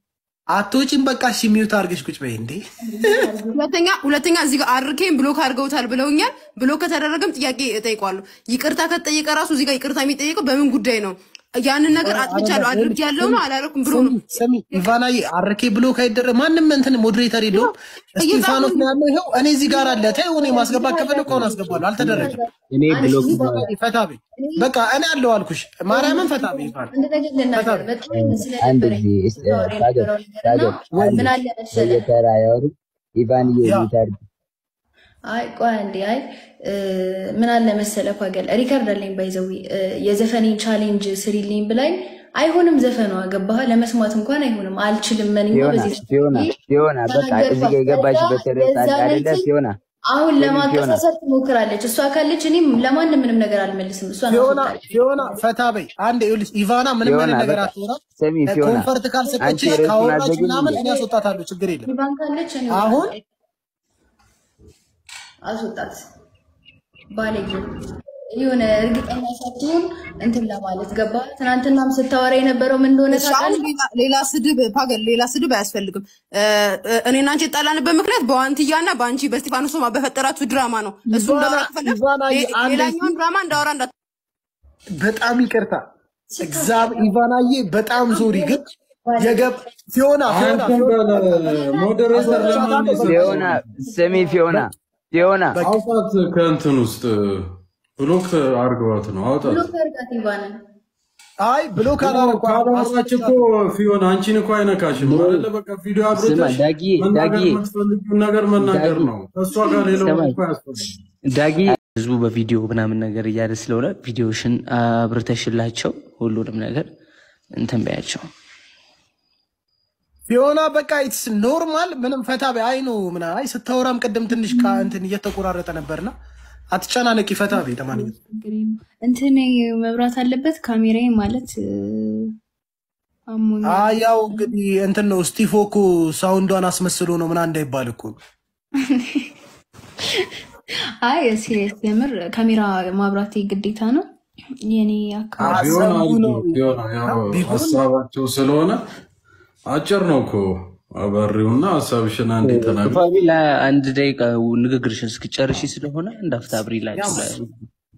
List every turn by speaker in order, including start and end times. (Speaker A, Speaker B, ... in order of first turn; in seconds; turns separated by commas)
Speaker A: 0.5-3.0, Speaker B: 2.9-3.6, Speaker C: 3.5-14.9, Speaker A: 12.0-22.4, Speaker C: 17.5-18.8, Speaker B: 19.6-23.7, Speaker D: 21.3-22.3, Speaker A: 22.9-26.9, Speaker D: 23.1-23.6, Speaker B: 24.4-24.7, Speaker B: 25.9-32.0, Speaker A: 27.5-27.9, Speaker D: 28.1-34.2, Speaker A: 30.9-31.4, Speaker A: 33.6-33.9, Speaker B: 35.3-46.5, Speaker D: 45.5-49.8, Speaker B: 47.1-49.5, Speaker B: 50.1-55.4, Speaker D: 50.4-51.0, Speaker A: 54.3-61.9, Speaker D: 57.0-58.9, Speaker B: 59.2-59.9, Speaker D: 59.4-60.8, Speaker B: 60.7-61.1, Speaker B: 61.8-63.2, Speaker A: 62.7-63.1, Speaker B: 65.4-66.0, Speaker B: 67.1-67.7, Speaker B: 68.3-73.6, Speaker C: 73.1-83.9, Speaker A: 81.1-83.1, Speaker A: 85.0-85.8, Speaker B: 86.3-87.1, Speaker A: 86.4-88.6, Speaker B: 88.1-89.5, Speaker A: 89.2-91.0, Speaker E: 90.2-93.7, Speaker B: 91.0-94.3, Speaker A: 92.1-93.5, Speaker D: 93.0-95.6, Speaker E: 95.6-97.5, Speaker E: 98.0-99.7, Speaker B: 99.4-100.6, Speaker A: 101.4-103.5, Speaker E: 102.0-110.9, Speaker D: 106.1-107.6, Speaker D: 108.6-109.1, Speaker B: 109.6-110.1, Speaker F: 110.0-110.3, Speaker F: 111.2-116.9, Speaker F: 117.5-118.3, Speaker A: 120.3-126.1, Speaker B: 124.4-124.9, Speaker A: 126.7-128.1, Speaker B: 127.5-132.3, Speaker B: 133.3-134.5, Speaker A: 133.6-138.2, Speaker B: 138.8-139.3, Speaker B: 141.0-144.0, Speaker B: 144.7-145.9, Speaker E: 145.4-148.8, Speaker A: 145.4-147.8, Speaker E: 149.7-153.0, Speaker F: 152.4-157.6, Speaker A: 156.9-157.3